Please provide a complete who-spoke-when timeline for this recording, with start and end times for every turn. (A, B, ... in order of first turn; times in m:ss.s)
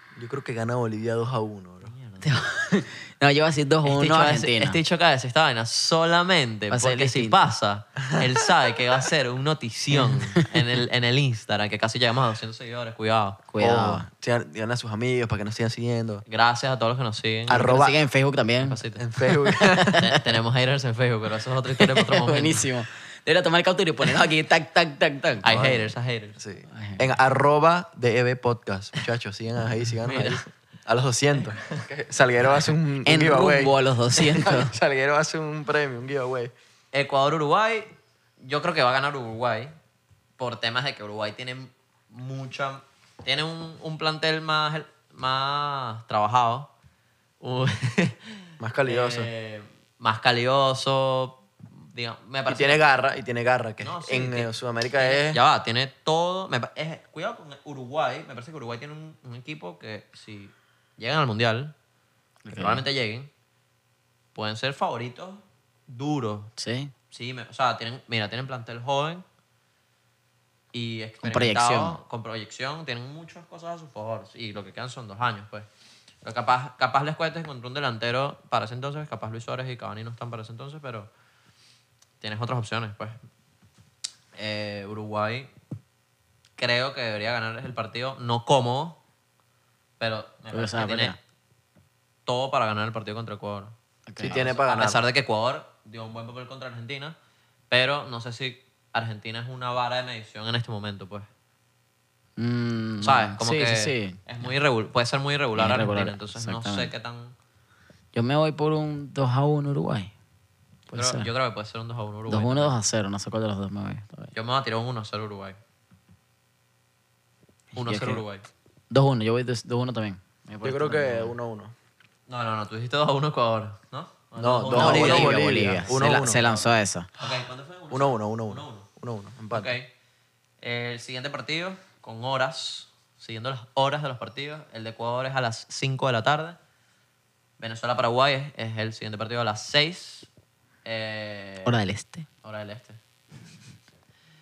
0:00.2-0:01.9 A
0:01.8-0:02.3 B
0:02.2-0:04.8 C
0:03.8-0:13.4 B
0:06.7-0:07.4 C
0:09.9-0:10.5 C
0:13.5-0:14.1 C
0:13.6-0:16.2 A
0:16.2-0:17.8 B
0:17.5-0:18.0 A
0:17.5-0:20.1 C
0:18.6-0:19.0 B
0:19.0-0:20.1 A
0:20.0-0:22.7 B
0:21.7-0:25.5 C
0:25.4-0:26.4 B
0:25.4-0:36.5 A
0:26.7-0:27.1 C
0:30.0-0:30.4 B
0:31.5-0:31.8 B
0:33.0-0:34.7 C
0:36.9-0:37.9 B
0:38.4-0:39.7 B
0:40.4-0:46.7 B
0:47.4-0:52.8 B
0:48.6-0:49.3 A
0:52.5-0:55.4 A
0:53.8-1:01.7 B
1:02.4-1:02.8 C
1:02.5-1:03.3 B
1:04.3-1:06.5 B
1:06.6-1:06.9 C
1:07.1-1:09.2 B
1:10.7-1:15.7 B
1:11.2-1:12.0 C
1:16.2-1:21.1 B
1:22.2-1:23.2 B
1:24.3-1:25.5 B
1:26.6-1:29.0 B
1:30.0-1:31.2 B
1:30.5-1:31.2 C
1:32.2-1:37.2 B
1:34.1-1:34.5 C
1:34.2-1:35.0 A
1:37.7-1:41.3 B
1:42.4-1:44.5 C
1:43.0-1:47.3 B
1:45.5-1:46.9 C
1:48.1-1:50.1 C
1:50.9-1:51.3 C
1:50.9-1:52.7 B
1:52.3-1:54.3 C
1:54.3-1:55.6 B
1:57.7-1:58.2 C
1:57.7-1:58.5 B
1:58.9-2:01.3 C
2:00.6-2:01.7 A
2:02.3-2:08.9 B
2:04.4-2:06.5 A
2:04.7-2:07.1 C
2:07.9-2:09.8 A
2:09.5-2:09.9 B
2:10.6-2:16.6 B
2:17.6-2:20.3 B
2:20.8-2:21.8 B
2:21.6-2:22.3 C
2:22.4-2:23.0 B